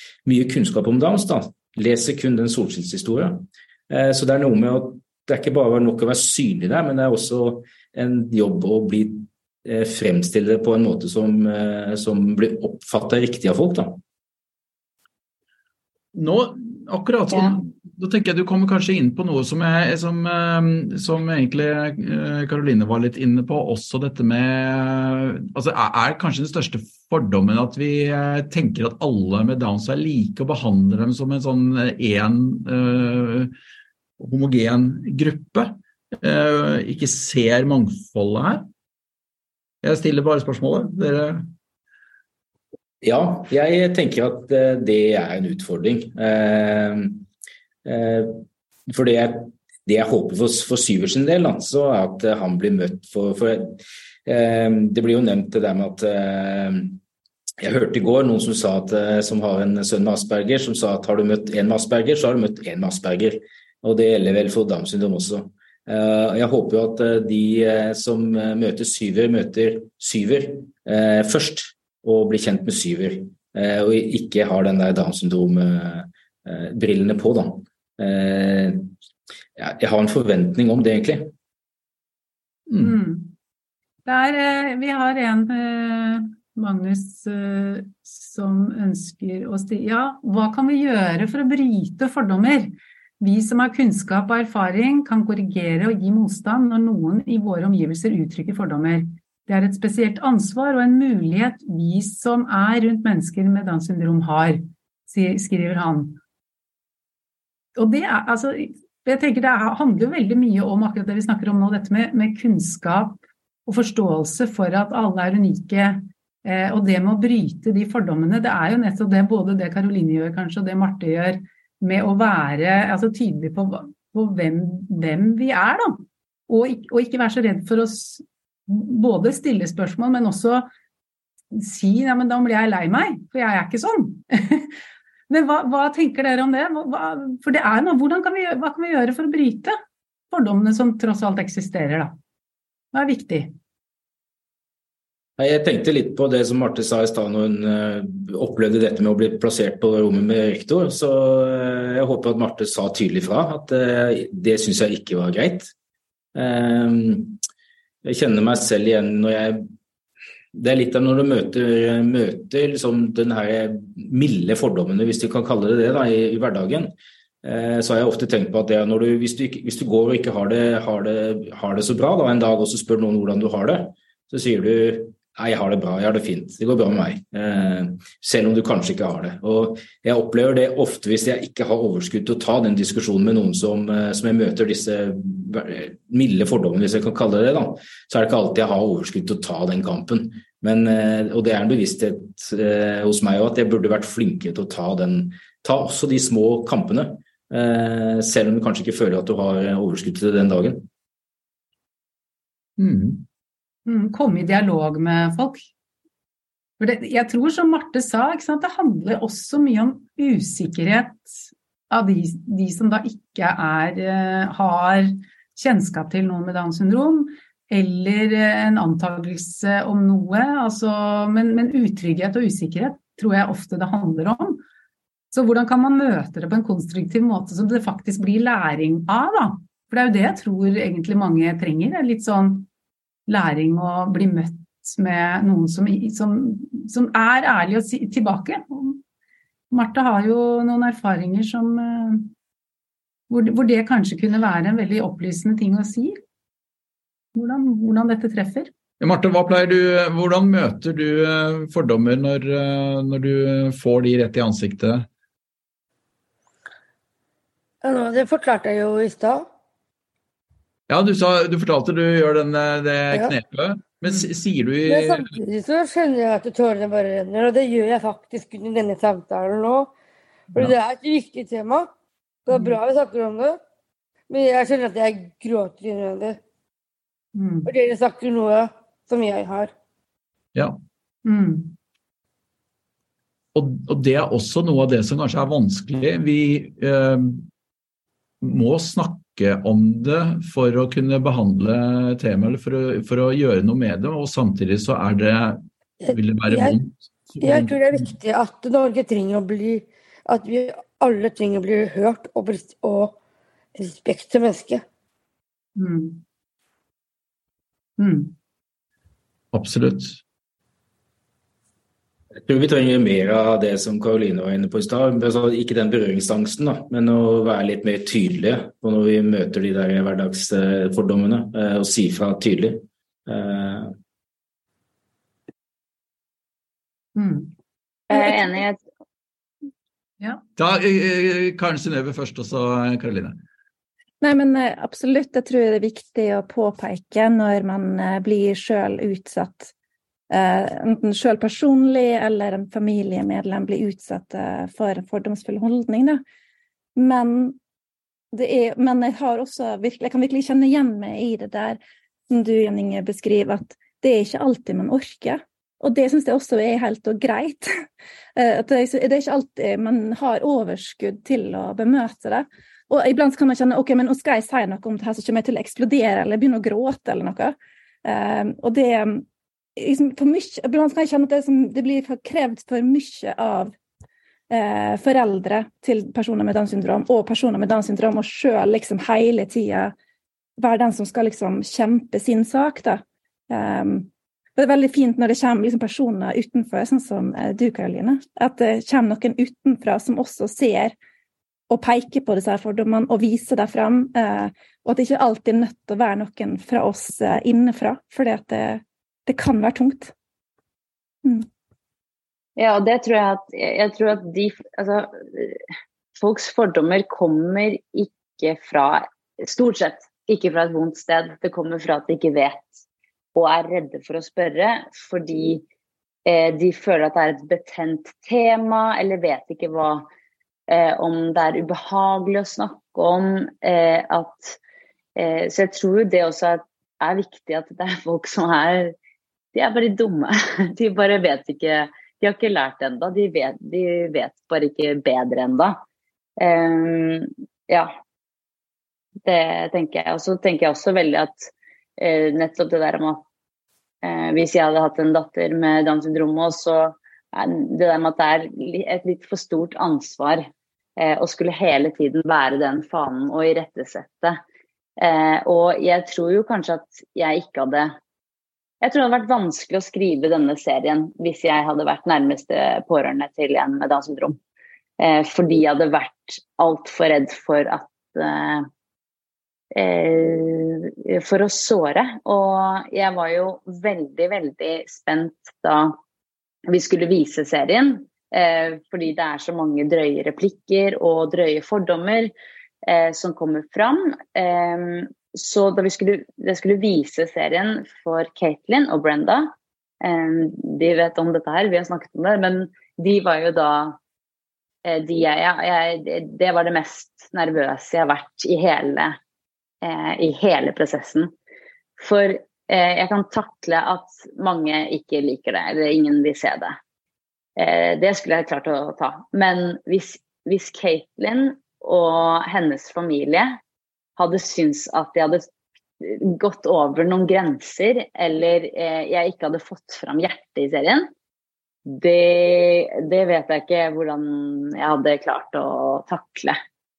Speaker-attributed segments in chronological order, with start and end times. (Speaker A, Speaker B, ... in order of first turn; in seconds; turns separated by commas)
Speaker A: 0.2-14.0, Speaker B: 16.1-33.5, Speaker B: 34.2-38.7, Speaker B: 39.8-41.5, Speaker A: 43.0-47.2, Speaker A: 47.8-57.0, Speaker A: 57.6-78.9, Speaker A: 79.6-81.3, Speaker B: 82.7-83.0, Speaker C: 82.8-83.3, Speaker C: 84.0-106.2, Speaker C: 107.8-130.7, Speaker C: 131.5-134.8, Speaker C: 135.3-139.8, Speaker C: 140.3-142.2, Speaker C: 142.9-143.5, Speaker A: 145.4-155.7, Speaker A: 156.3-157.4, Speaker A: 158.0-159.7, Speaker A: 160.5-200.9, Speaker B: 202.8-203.2, Speaker C: 203.8-205.6, Speaker C: 206.8-224.6, Speaker C: 225.3-232.7, Speaker C: 233.3-239.0, Speaker C: 239.7-242.3, Speaker C: 243.3-246.2, Speaker C: 247.3-248.7, Speaker B: 249.0-255.1, Speaker D: 257.8-259.5, Speaker B: 260.9-265.4, Speaker D: 264.9-269.9, Speaker D: 270.5-271.9, Speaker D: 272.5-273.6, Speaker C: 272.5-272.8, Speaker D: 274.3-276.4, Speaker C: 277.3-277.7, Speaker D: 277.6-279.7, Speaker B: 280.5-280.8, Speaker C: 281.2-281.7, Speaker B: 283.5-287.5, Speaker B: 288.4-298.1, Speaker D: 296.0-296.8, Speaker D: 297.4-303.2, Speaker D: 303.8-304.8, Speaker C: 305.8-306.2, Speaker C: 308.0-308.3, Speaker B: 309.5-310.2, Speaker A: 312.4-323.9, Speaker C: 327.1-327.5, Speaker E: 328.1-328.8, Speaker B: 330.6-333.4, Speaker F: 334.2-339.7, Speaker F: 340.3-346.2, Speaker F: 346.9-347.6, Speaker F: 348.3-351.8, Speaker F: 352.3-357.8, Speaker F: 358.4-369.2, Speaker F: 369.8-373.7, Speaker F: 374.5-379.9, Speaker F: 380.6-390.9, Speaker F: 391.7-400.1, Speaker E: 402.6-405.6, Speaker E: 406.1-412.8, Speaker E: 413.3-415.6, Speaker E: 416.2-420.1, Speaker E: 420.7-424.6, Speaker E: 425.1-428.9, Speaker E: 429.5-435.8, Speaker E: 436.4-437.9, Speaker E: 439.2-443.2, Speaker E: 444.0-454.4, Speaker E: 455.0-457.9, Speaker E: 458.8-464.4, Speaker E: 465.0-468.7, Speaker E: 469.7-475.9, Speaker E: 476.7-482.3, Speaker E: 482.8-494.0, Speaker E: 494.8-499.2, Speaker E: 499.8-501.3, Speaker E: 502.0-506.8, Speaker E: 507.6-513.6, Speaker E: 514.2-515.5, Speaker E: 516.0-521.1, Speaker E: 521.9-526.6